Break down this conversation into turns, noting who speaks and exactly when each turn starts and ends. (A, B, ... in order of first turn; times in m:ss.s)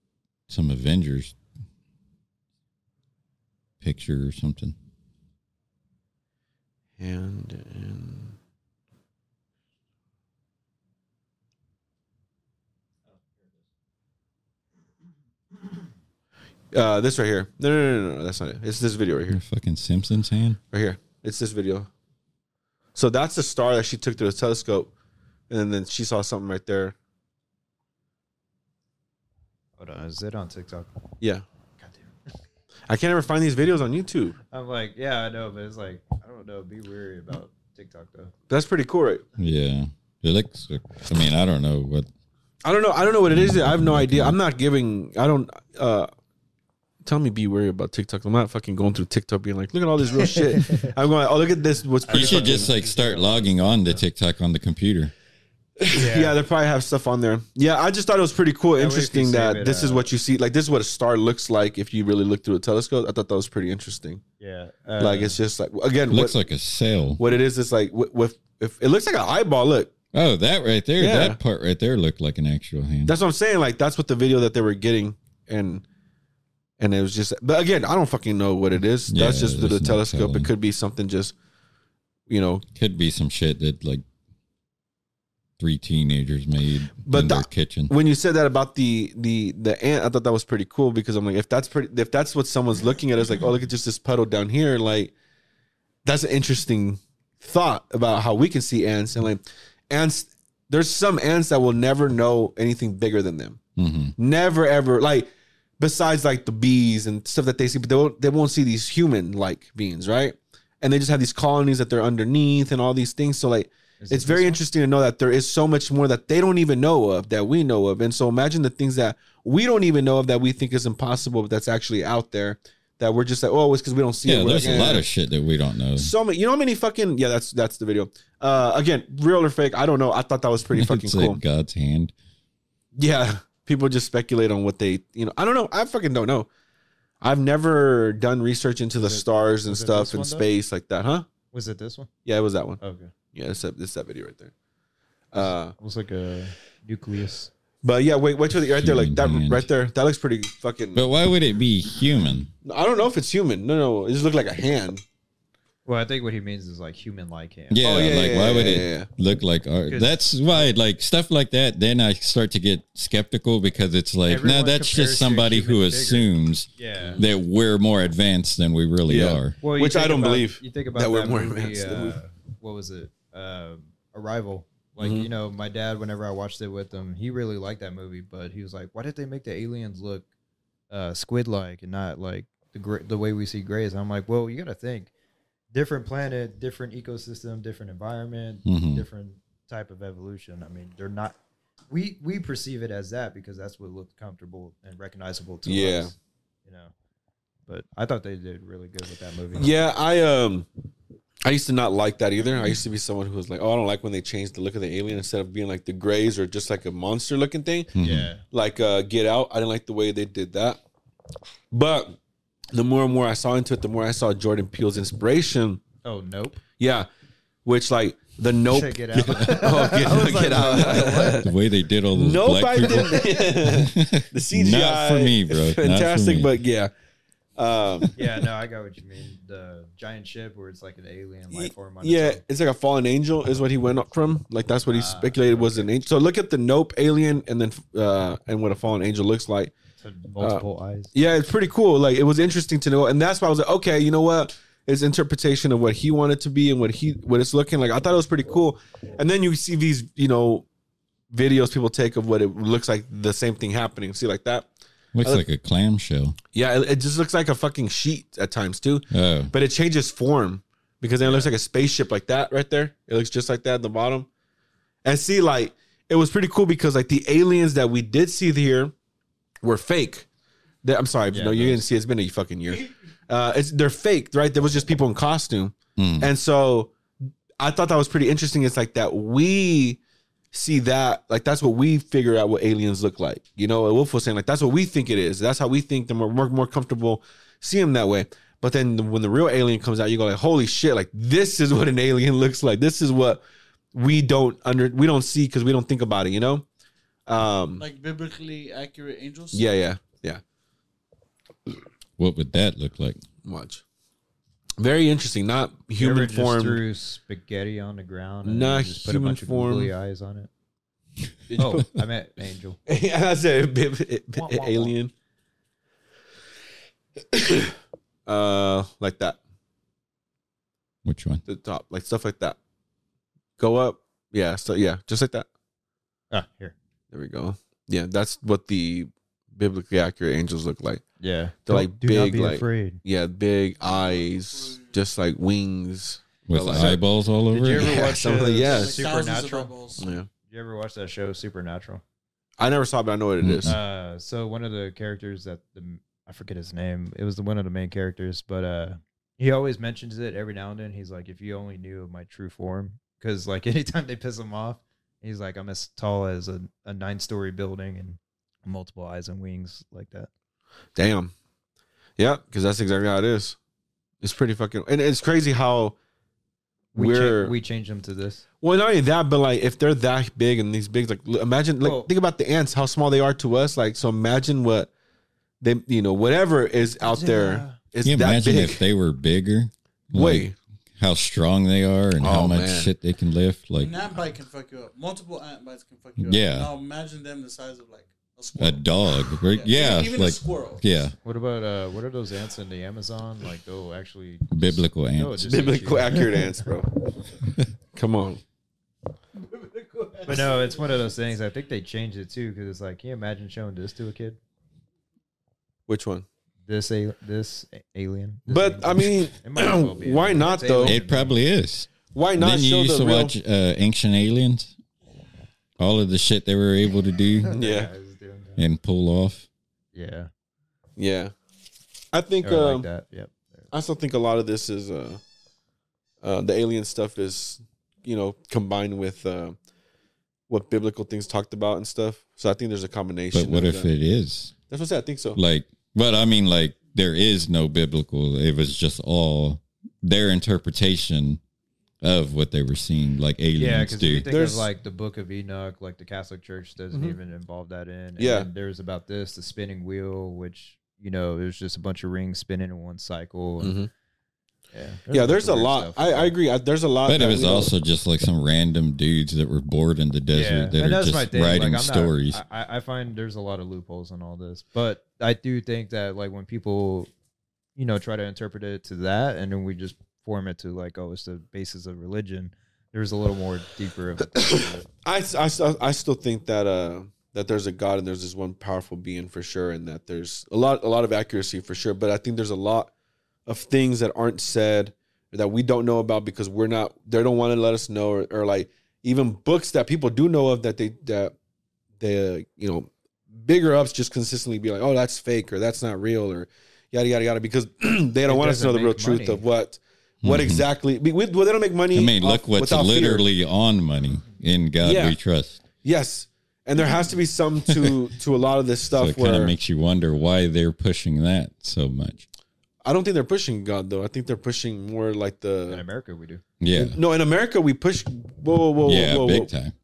0:00.5-0:01.4 A
0:03.8-0:04.7 A
0:07.0-0:08.3 B
0:16.7-0:19.4 B
0:19.3-0:20.6 A
0:20.7-0:21.9 B
0:22.9-0:24.9 B
0:25.5-0:26.9 B
0:29.8-0:30.9 C
0:31.8-0:32.1 C
0:32.9-0:34.4 B
0:34.5-0:38.3 C
0:38.5-0:39.2 B
0:39.4-0:42.1 A
0:42.6-0:46.1 B
0:43.3-0:44.4 A
0:47.0-0:52.7 B
0:50.4-0:50.9 C
0:52.0-0:54.0 C
0:52.1-0:55.1 A
0:55.8-1:04.2 B
0:55.9-0:56.3 C
0:58.8-1:00.1 C
1:04.4-1:05.4 C
1:05.0-1:06.4 B
1:06.1-1:07.2 A
1:07.2-1:09.9 B
1:10.1-1:13.1 A
1:11.0-1:11.4 B
1:13.0-1:15.8 B
1:16.8-1:21.3 B
1:19.1-1:20.5 A
1:22.3-1:22.6 B
1:22.7-1:24.0 A
1:25.6-1:27.9 A
1:27.0-1:35.1 B
1:36.0-1:43.6 B
1:43.8-1:44.1 A
1:44.2-2:05.0 B
1:54.0-1:54.6 C
2:04.2-2:06.1 A
2:06.0-2:11.4 B
2:10.8-2:12.1 A
2:12.9-2:16.5 B
2:17.2-2:21.3 B
2:18.9-2:20.4 C
2:21.5-2:22.1 C
2:22.2-2:22.8 B
2:22.8-2:23.1 C
2:23.3-2:24.5 B
2:25.3-2:25.7 B
2:25.4-2:27.5 C
2:27.8-2:31.1 B
2:28.8-2:29.7 A
2:30.9-2:32.5 A
2:32.6-2:35.0 B
2:35.8-2:37.8 C
2:37.7-2:49.6 A
2:37.8-2:39.1 B
2:39.9-2:40.7 C
2:44.2-2:47.2 C
2:49.1-2:52.2 B
2:49.6-3:00.3 C
2:55.0-2:55.3 B
3:00.9-3:05.1 C
3:05.7-3:11.4 C
3:08.6-3:09.0 A
3:11.9-3:16.1 C
3:15.6-3:16.1 B
3:16.6-3:16.9 C
3:17.7-3:19.7 C
3:19.5-3:20.7 B
3:21.4-3:27.9 B
3:28.0-3:28.3 A
3:28.0-3:28.4 C
3:28.5-3:30.8 B
3:31.7-3:32.2 B
3:32.7-3:35.8 B
3:36.0-3:36.6 C
3:36.8-3:37.1 B
3:37.6-3:41.5 B
3:38.7-3:41.4 C
3:41.3-3:46.5 A
3:42.1-3:46.9 B
3:47.6-3:48.2 B
3:48.2-3:52.4 C
3:51.5-3:59.7 B
3:54.9-3:55.9 C
4:00.0-4:01.1 C
4:00.4-4:10.6 B
4:11.3-4:14.7 B
4:15.1-4:16.4 A
4:16.5-4:24.3 B
4:19.1-4:19.5 A
4:25.0-4:28.9 B
4:29.6-4:30.3 B
4:30.8-4:36.9 B
4:31.3-4:31.8 C
4:36.0-4:36.3 A
4:37.6-4:40.0 B
4:40.5-4:53.4 B
4:53.9-4:56.6 B
4:57.3-4:57.8 B
4:57.8-4:59.6 D
4:59.5-5:00.4 B
5:02.2-5:03.2 A
5:03.4-5:03.8 B
5:04.8-5:06.8 B
5:06.0-5:10.5 C
5:08.4-5:09.9 B
5:11.5-5:11.9 B
5:11.5-5:12.8 C
5:12.8-5:15.1 B
5:14.3-5:14.9 C
5:17.3-5:17.7 B
5:18.2-5:19.4 B
5:21.0-5:21.4 A
5:21.4-5:22.6 B
5:23.6-5:25.5 B
5:26.3-5:26.7 C
5:27.1-5:31.0 B
5:31.2-5:33.0 C
5:31.6-5:36.9 B
5:33.8-5:34.9 D
5:36.5-5:37.9 A
5:36.5-5:39.7 C
5:37.7-5:39.1 B
5:38.6-5:40.1 D
5:40.0-5:40.3 B
5:40.5-5:42.0 C
5:42.6-5:43.7 B
5:43.4-5:43.8 A
5:43.6-6:00.3 C
6:01.0-6:01.3 B
6:02.2-6:03.6 B
6:04.2-6:06.0 B
6:06.9-6:07.5 B
6:06.9-6:08.4 C
6:08.6-6:14.9 B
6:11.8-6:12.1 C
6:15.6-6:18.8 B
6:17.0-6:17.8 C
6:18.0-6:20.5 A
6:20.1-6:20.5 B
6:21.0-6:23.9 A
6:22.2-6:22.9 B
6:23.8-6:30.8 D
6:26.2-6:26.7 A
6:28.6-6:31.1 A
6:31.2-6:36.6 C
6:34.5-6:35.7 A
6:35.5-6:36.9 B
6:37.9-6:38.4 B
6:39.5-6:40.9 D
6:40.2-6:44.4 C
6:45.9-6:46.2 B
6:46.7-6:51.4 C
6:48.5-6:51.0 B
6:50.8-6:54.7 A
6:52.1-6:53.3 B
6:55.8-6:57.6 A
6:57.4-6:58.6 C
6:57.5-6:57.9 B
6:58.6-6:59.5 A
6:59.9-7:00.3 C
7:01.0-7:01.3 B
7:02.1-7:02.9 B
7:02.4-7:03.7 C
7:03.7-7:05.2 B
7:06.2-7:09.6 B
7:10.5-7:13.9 B
7:13.3-7:14.5 A
7:14.7-7:15.4 B
7:15.4-7:21.4 A
7:22.0-7:24.3 A
7:23.6-7:33.8 C
7:24.3-7:24.7 B
7:28.2-7:28.5 B
7:33.6-7:33.9 B
7:34.7-7:36.3 C
7:35.1-7:37.7 B
7:37.1-7:42.4 A
7:40.3-7:47.1 C
7:47.8-7:54.8 C
7:54.4-8:02.9 B
8:03.4-8:11.3 B
8:12.0-8:23.3 B
8:18.2-8:19.4 C
8:20.2-8:20.6 A
8:21.9-8:25.6 A
8:24.8-8:25.2 B
8:25.8-8:29.5 B
8:29.0-8:32.2 A
8:32.8-8:35.8 B
8:35.7-8:36.4 C
8:36.6-8:37.0 A
8:36.7-8:39.5 B
8:38.8-8:39.7 A